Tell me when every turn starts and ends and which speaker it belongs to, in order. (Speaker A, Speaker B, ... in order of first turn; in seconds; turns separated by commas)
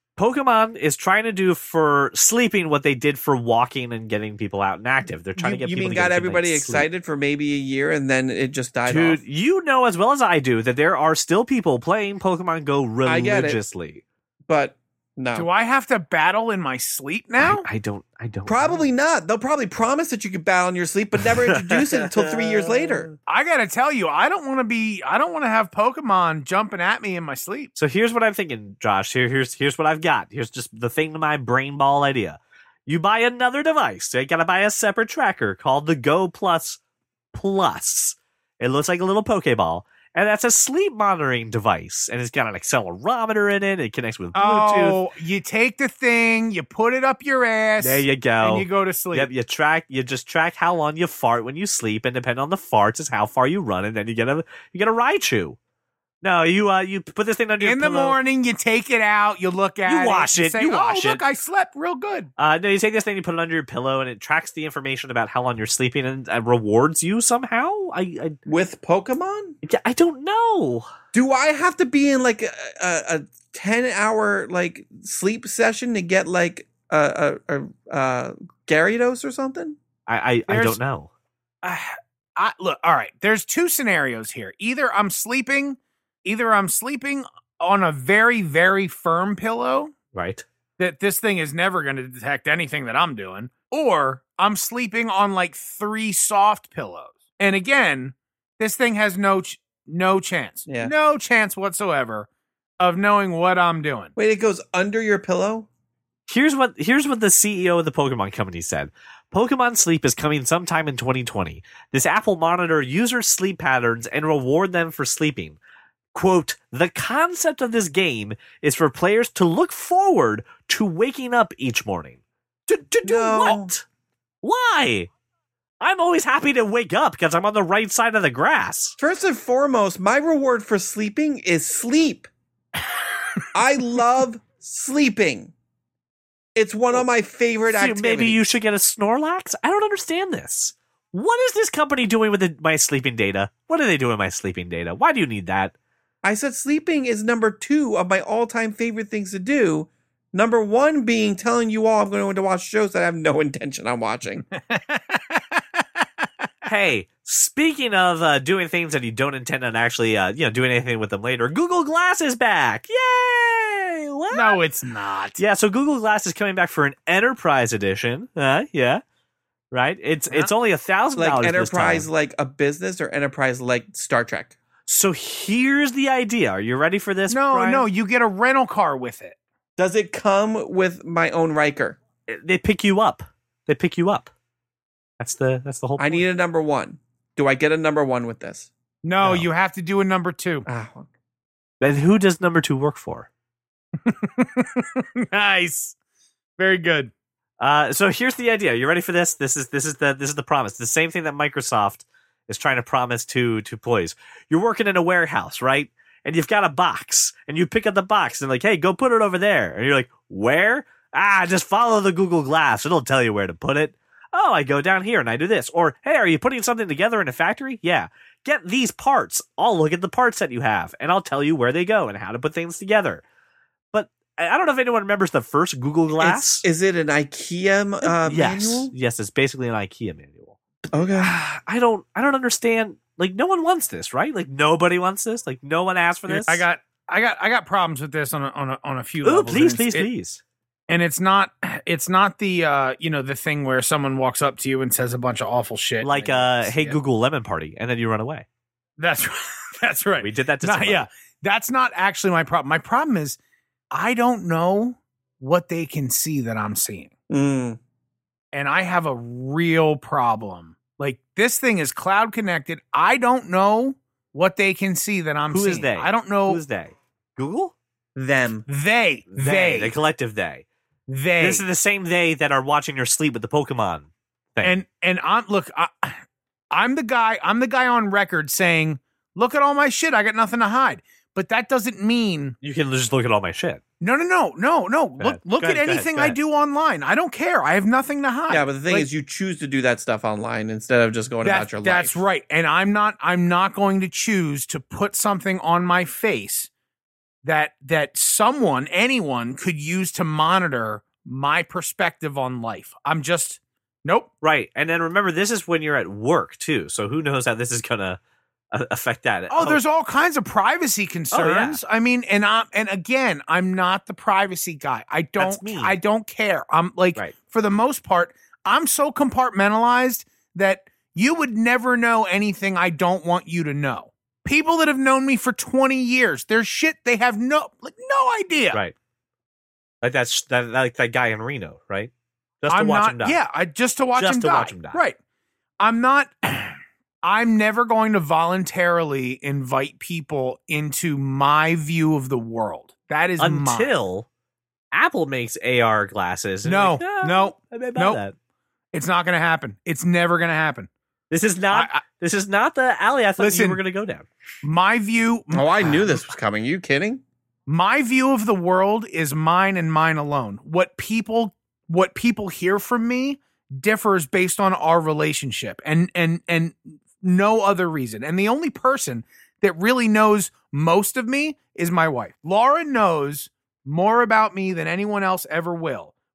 Speaker A: 0.2-6.9, Speaker B: 5.4-9.2, Speaker A: 8.9-14.0, Speaker B: 13.0-13.6, Speaker B: 14.5-15.5, Speaker C: 15.3-17.7, Speaker A: 17.4-18.8, Speaker B: 18.4-23.1, Speaker A: 21.5-23.1, Speaker C: 23.2-27.7, Speaker A: 27.8-36.8, Speaker A: 37.3-45.0, Speaker C: 44.3-49.3, Speaker A: 47.8-55.6, Speaker A: 56.2-58.2, Speaker C: 57.6-62.3, Speaker A: 59.9-61.2, Speaker A: 62.4-68.4, Speaker B: 68.5-69.5, Speaker A: 69.6-70.9, Speaker B: 71.1-79.8, Speaker A: 80.1-81.1, Speaker C: 80.5-80.8, Speaker C: 81.6-89.9, Speaker A: 90.1-90.4, Speaker C: 90.8-102.3, Speaker B: 100.7-100.9, Speaker C: 102.8-104.1, Speaker B: 104.2-105.7, Speaker A: 106.3-115.6, Speaker A: 116.1-123.8, Speaker B: 123.0-123.7, Speaker A: 124.4-125.1, Speaker A: 125.8-129.0, Speaker B: 129.0-132.3, Speaker B: 133.5-135.5, Speaker B: 136.5-138.4, Speaker A: 137.7-145.7, Speaker B: 146.2-154.4, Speaker C: 154.5-156.2, Speaker A: 156.7-164.6, Speaker C: 164.3-165.4, Speaker A: 165.4-169.0, Speaker A: 169.7-172.1, Speaker B: 171.2-174.6, Speaker A: 174.9-177.8, Speaker C: 177.3-179.3, Speaker B: 179.8-182.0, Speaker A: 182.3-184.3, Speaker A: 185.2-186.2, Speaker B: 186.0-188.7, Speaker C: 189.0-190.7, Speaker A: 189.2-189.5, Speaker B: 190.7-191.1, Speaker A: 191.8-193.3, Speaker C: 194.0-195.9, Speaker C: 196.6-197.1, Speaker A: 197.6-223.2, Speaker A: 223.9-226.6, Speaker B: 226.2-228.9, Speaker A: 228.0-230.6, Speaker B: 230.9-231.3, Speaker A: 231.2-236.6, Speaker C: 236.3-240.1, Speaker A: 239.2-240.4, Speaker C: 240.9-247.0, Speaker A: 246.0-248.4, Speaker C: 249.0-253.4, Speaker A: 250.2-251.0, Speaker C: 253.9-257.1, Speaker B: 257.3-257.8, Speaker C: 258.5-266.6, Speaker A: 265.5-267.7, Speaker B: 268.1-268.7, Speaker C: 268.7-269.9, Speaker A: 269.3-270.6, Speaker C: 271.1-271.6, Speaker A: 271.4-274.8, Speaker C: 274.6-282.6, Speaker A: 282.6-283.8, Speaker C: 284.0-289.1, Speaker A: 285.2-286.4, Speaker B: 288.5-292.1, Speaker C: 291.4-296.7, Speaker C: 297.4-304.3, Speaker A: 304.4-308.2, Speaker A: 308.7-309.8, Speaker C: 309.5-328.8, Speaker A: 311.3-311.8, Speaker A: 315.4-316.0, Speaker A: 330.0-332.1, Speaker A: 332.6-333.4, Speaker C: 332.7-335.2, Speaker A: 334.1-335.0, Speaker C: 335.8-343.9, Speaker A: 343.4-344.3, Speaker A: 344.9-348.3, Speaker C: 346.6-348.2, Speaker C: 348.9-350.9, Speaker A: 351.3-354.2, Speaker C: 351.7-352.0, Speaker C: 353.4-353.8, Speaker C: 354.6-356.1, Speaker B: 355.5-357.2, Speaker C: 357.7-376.1